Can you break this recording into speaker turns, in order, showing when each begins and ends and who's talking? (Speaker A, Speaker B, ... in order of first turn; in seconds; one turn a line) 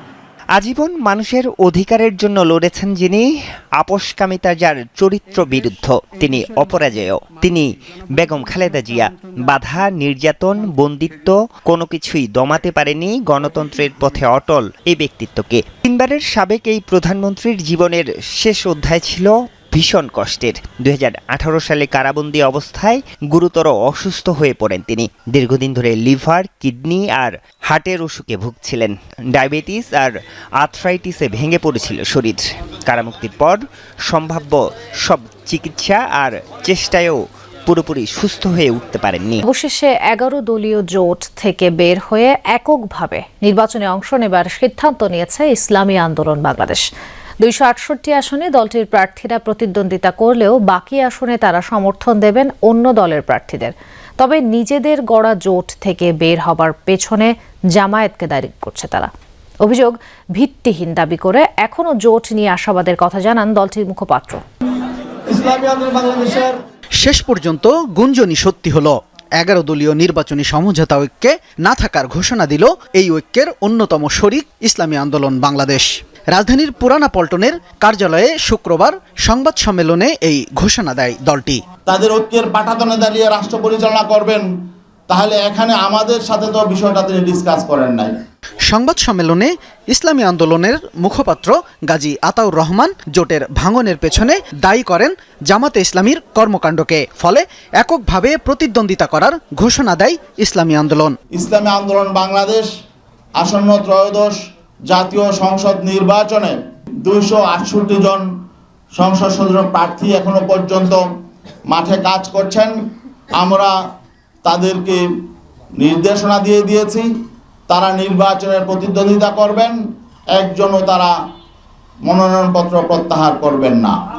Speaker A: 0.6-39.4
Speaker B: 39.4-46.9
Speaker B: 47.4-59.1
Speaker B: 59.6-64.4
Speaker C: 67.0-81.6
Speaker D: 81.9-84.5
Speaker D: 85.1-88.2
Speaker C: 88.7-101.2
Speaker D: 101.3-102.7
Speaker D: 103.3-108.3
Speaker D: 108.9-111.0
Speaker D: 111.7-112.8
Speaker D: 113.3-113.8
Speaker D: 114.4-115.2
Speaker D: 115.8-117.1
Speaker D: 117.7-119.8
Speaker D: 120.3-121.1
Speaker D: 122.0-123.9